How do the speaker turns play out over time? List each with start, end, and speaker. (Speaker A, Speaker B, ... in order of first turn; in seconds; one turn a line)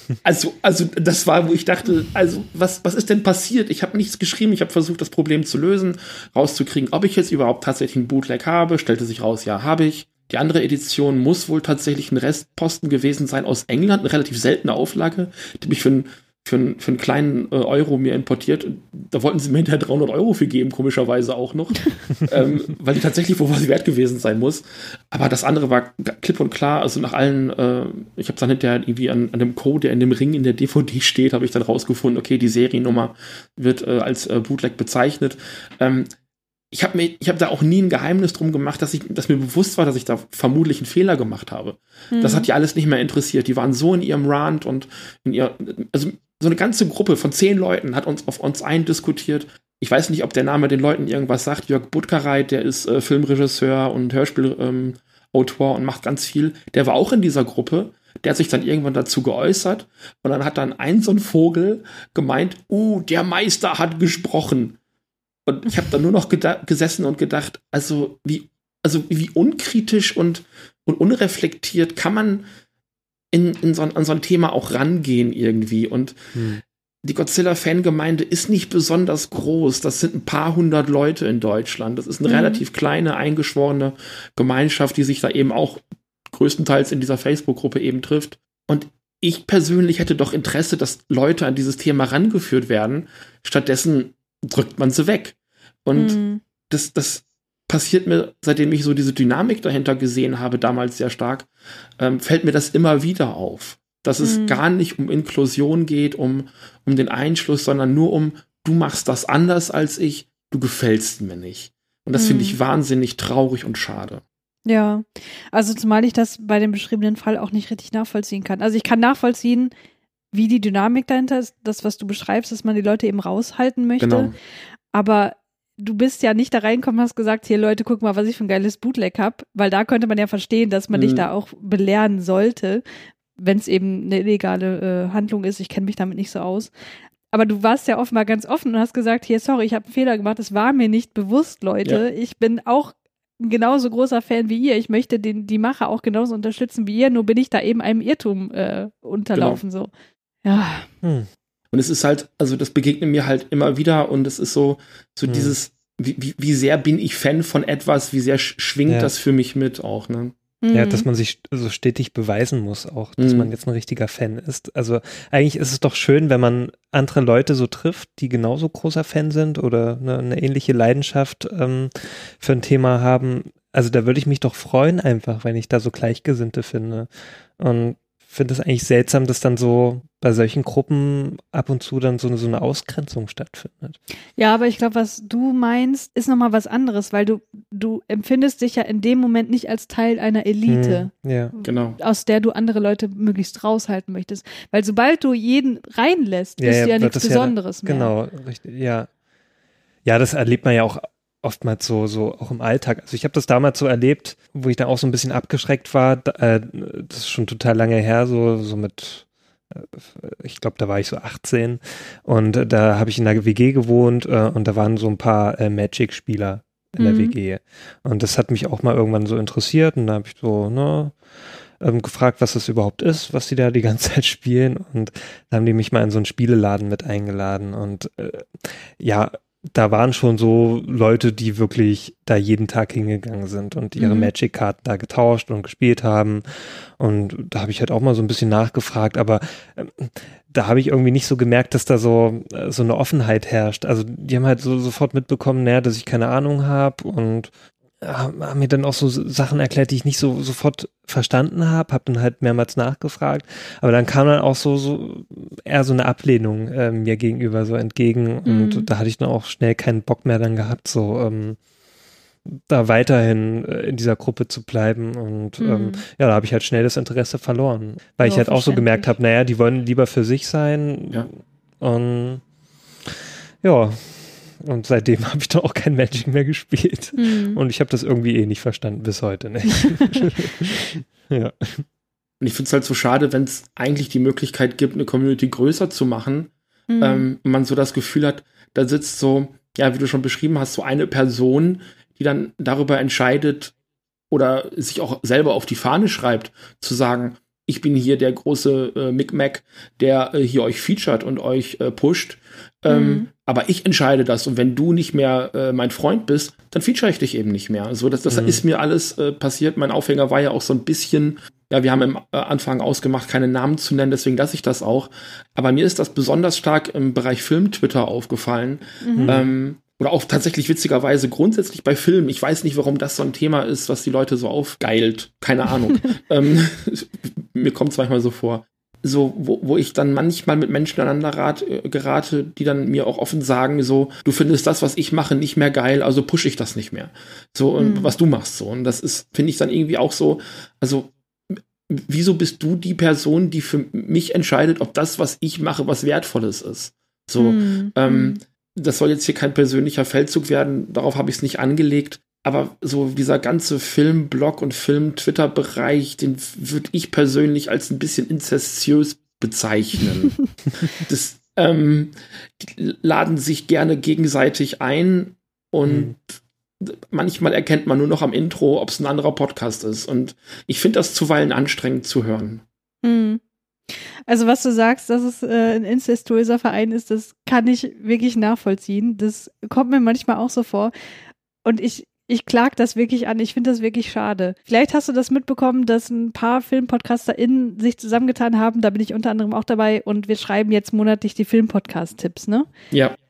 Speaker A: 0.2-36.1
Speaker A: 36.7-64.8
Speaker B: 42.1-42.5
Speaker A: 65.5-72.5
Speaker A: 73.3-76.2
Speaker C: 76.3-76.6
Speaker A: 77.0-96.2
Speaker B: 82.3-82.6
Speaker B: 95.9-96.4
Speaker A: 96.7-101.5
Speaker A: 102.0-114.2
Speaker B: 104.2-104.6
Speaker B: 112.2-112.6
Speaker B: 114.7-119.7
Speaker B: 120.3-124.3
Speaker A: 124.0-124.3
Speaker B: 124.9-132.8
Speaker A: 130.9-131.3
Speaker B: 133.4-136.7
Speaker B: 137.3-149.9
Speaker A: 149.3-149.6
Speaker B: 150.4-150.9
Speaker C: 151.0-151.3
Speaker A: 151.7-160.3
Speaker C: 155.3-155.6
Speaker C: 158.9-159.1
Speaker B: 160.6-161.1
Speaker C: 160.7-184.0
Speaker A: 163.2-163.5
Speaker B: 184.4-198.1
Speaker C: 190.7-191.5
Speaker A: 191.6-192.0
Speaker C: 196.6-199.1
Speaker C: 200.1-261.6
Speaker B: 217.0-217.3
Speaker B: 234.0-234.3
Speaker B: 258.5-258.9
Speaker C: 262.5-272.4
Speaker B: 265.6-266.0
Speaker B: 268.2-269.1
Speaker C: 273.6-281.9
Speaker B: 277.2-277.6
Speaker A: 282.4-293.7
Speaker B: 286.9-287.3
Speaker A: 294.3-372.6
Speaker B: 302.9-303.3
Speaker C: 308.3-308.6
Speaker B: 319.0-319.4
Speaker C: 319.2-319.4
Speaker B: 337.8-338.1
Speaker B: 347.4-348.4
Speaker C: 365.9-366.1
Speaker B: 373.0-373.4
Speaker B: 373.9-380.9
Speaker B: 381.6-392.7
Speaker A: 392.9-393.2